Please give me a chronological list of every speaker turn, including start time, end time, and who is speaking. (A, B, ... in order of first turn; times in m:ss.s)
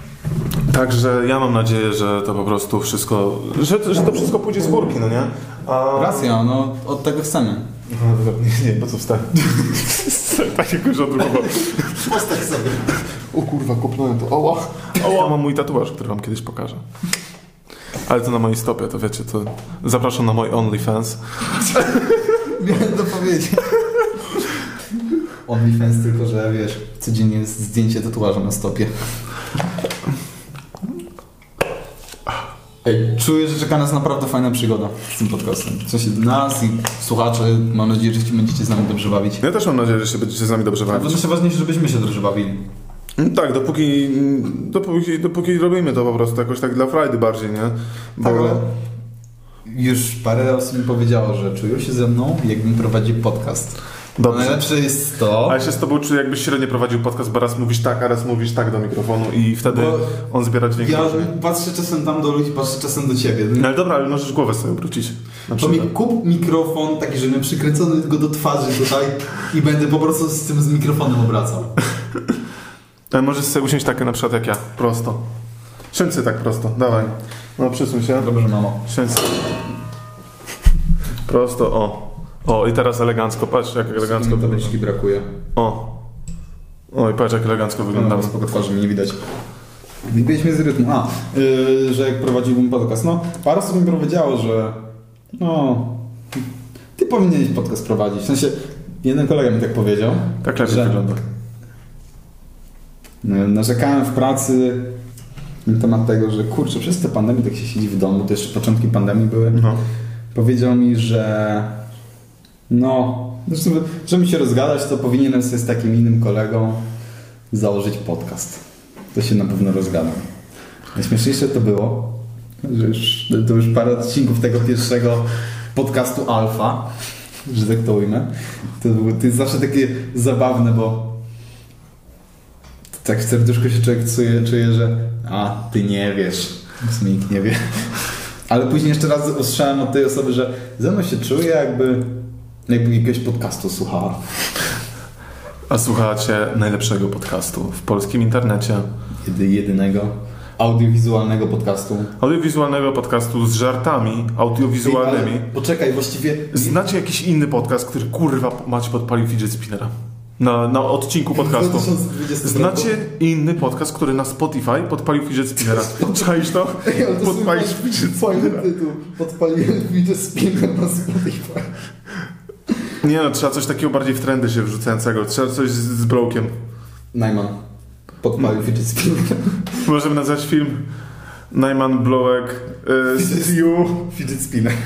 0:00.7-0:06.3 A
0:06.0-0:07.7 B
0:07.9-0:12.1 A
0:11.4-0:12.9 B
0:13.3-0:16.8 A
0:18.0-0:22.2 A
0:22.4-0:23.8 B
0:25.4-0:28.9 B
0:32.8-0:39.4 B
0:39.4-0:41.2 A
0:40.9-0:42.7 B
0:43.2-0:48.6 A
0:48.2-0:48.7 B
0:49.6-0:55.6 B
0:54.2-0:54.7 A
0:55.4-1:01.3 A
0:59.6-1:00.2 B
1:00.8-1:03.7 B
1:03.6-1:05.9 A
1:05.6-1:11.7 B
1:13.1-1:15.2 A
1:15.9-1:18.3 A
1:18.2-1:18.8 B
1:18.8-1:19.6 A
1:21.2-1:24.7 A
1:23.9-1:25.3 B
1:25.6-1:25.9 A
1:26.9-1:28.3 A
1:27.9-1:29.2 B
1:30.1-1:36.4 B
1:37.0-1:41.2 B
1:40.4-1:41.2 A
1:43.2-1:45.0 B
1:45.6-1:49.6 B
1:49.5-1:49.8 A
1:50.3-1:51.8 B
1:52.7-1:56.9 B
1:57.5-1:58.6 B
1:59.1-2:00.3 B
2:00.9-2:06.9 B
2:07.5-2:11.2 B
2:13.0-2:24.5 B
2:25.7-2:28.9 A
2:29.2-2:32.2 B
2:32.2-2:35.5 A
2:34.8-2:36.8 B
2:36.5-2:48.7 A
2:41.3-2:42.9 B
2:45.8-2:51.8 B
2:53.0-2:56.6 A
2:57.1-2:57.6 B
2:58.2-2:59.8 B
2:59.8-3:00.9 A
3:01.5-3:04.0 A
3:03.2-3:04.8 B